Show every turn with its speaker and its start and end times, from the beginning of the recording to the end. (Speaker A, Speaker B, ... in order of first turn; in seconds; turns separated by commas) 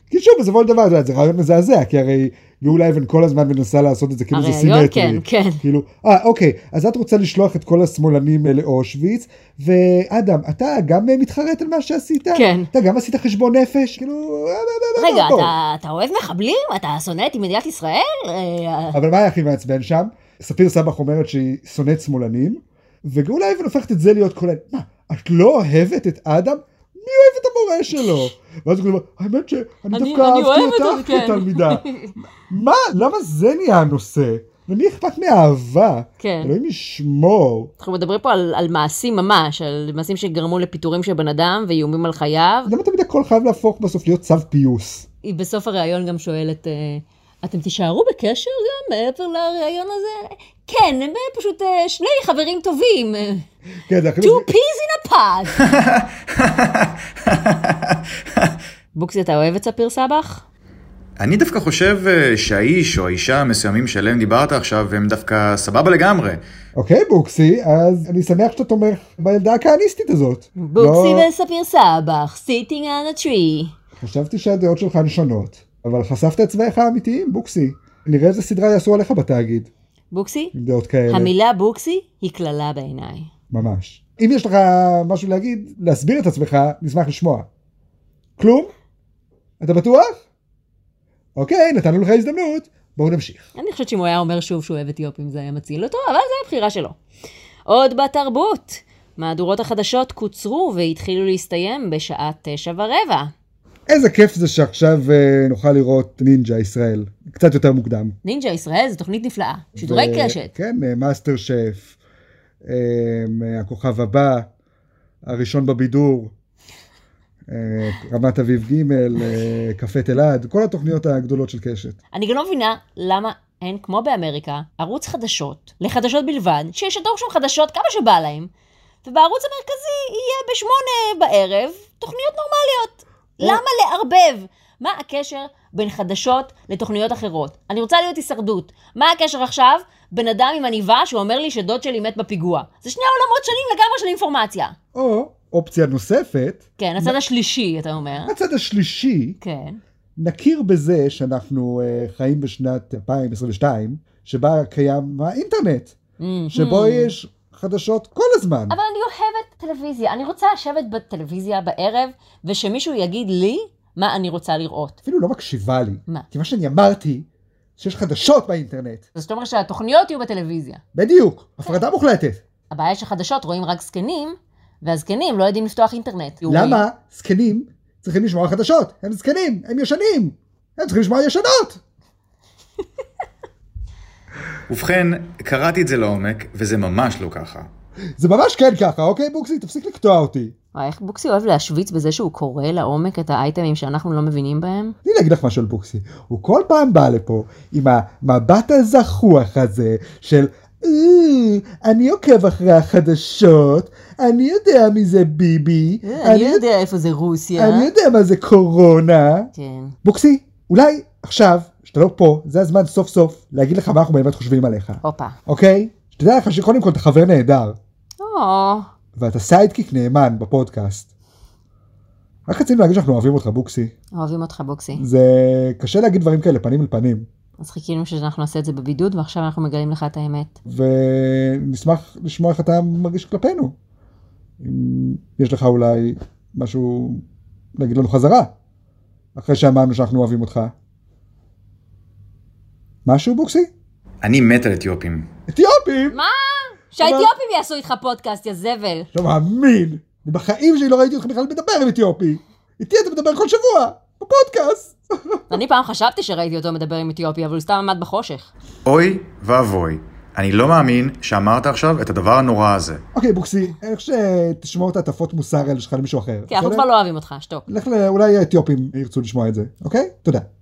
Speaker A: 0.1-15.5, Speaker B: 4.3-5.6, Speaker B: 12.3-12.7, Speaker B: 15.0-19.0, Speaker A: 18.9-31.9, Speaker B: 28.0-28.2, Speaker B: 29.9-32.1, Speaker A: 32.5-37.7, Speaker B: 36.2-36.5, Speaker B: 37.8-42.7, Speaker A: 42.7-45.1, Speaker B: 45.2-53.5, Speaker A: 53.9-54.5, Speaker B: 54.2-55.6, Speaker C: 55.6-58.6, Speaker B: 59.0-60.4, Speaker C: 61.2-66.4, Speaker A: 66.8-71.3, Speaker B: 70.6-73.7, Speaker A: 74.0-79.7, Speaker B: 80.1-80.5, Speaker A: 80.5-81.3, Speaker B: 81.1-83.3, Speaker A: 83.5-87.5, Speaker A: 88.4-88.7, Speaker A: 89.6-90.2, Speaker A: 91.4-93.5, Speaker B: 93.6-97.0, Speaker B: 97.7-103.3, Speaker A: 103.9-108.2, Speaker B: 108.2-110.5, Speaker A: 109.8-112.0, Speaker A: 112.6-114.5, Speaker A: 115.2-116.3, Speaker A: 117.5-122.0, Speaker B: 122.1-128.5, Speaker B: 129.0-144.8, Speaker A: 144.9-147.2, Speaker B: 146.8-148.3, Speaker A: 148.3-149.4, Speaker B: 149.4-149.8, Speaker A: 150.2-156.0, Speaker B: 156.2-157.2, Speaker A: 156.5-158.8, Speaker B: 158.7-165.0, Speaker A: 165.0-167.3, Speaker A: 167.8-169.0, Speaker B: 169.2-170.8, Speaker A: 170.9-172.4, Speaker B: 172.7-176.8, Speaker A: 176.5-181.8, Speaker C: 184.7-187.7, Speaker A: 188.2-190.6, Speaker B: 190.7-195.0, Speaker A: 195.1-206.6, Speaker B: 206.0-207.9, Speaker A: 207.6-209.5, Speaker B: 209.5-209.9, Speaker A: 210.0-217.8, Speaker B: 215.0-215.4, Speaker B: 218.2-218.9, Speaker A: 219.2-221.1, Speaker A: 222.5-223.9, Speaker B: 224.2-225.0, Speaker A: 225.0-227.3, Speaker B: 227.6-230.6, Speaker A: 230.7-233.7, Speaker A: 234.6-237.2, Speaker A: 237.8-238.5, Speaker A: 239.3-240.7, Speaker A: 243.1-243.7, Speaker C: 244.2-245.3, Speaker A: 245.5-246.2, Speaker B: 246.1-249.1, Speaker A: 247.0-247.3, Speaker A: 249.1-255.4, Speaker B: 255.5-258.5, Speaker C: 258.9-263.0, Speaker A: 263.1-266.9, Speaker B: 266.5-267.7, Speaker A: 267.7-270.5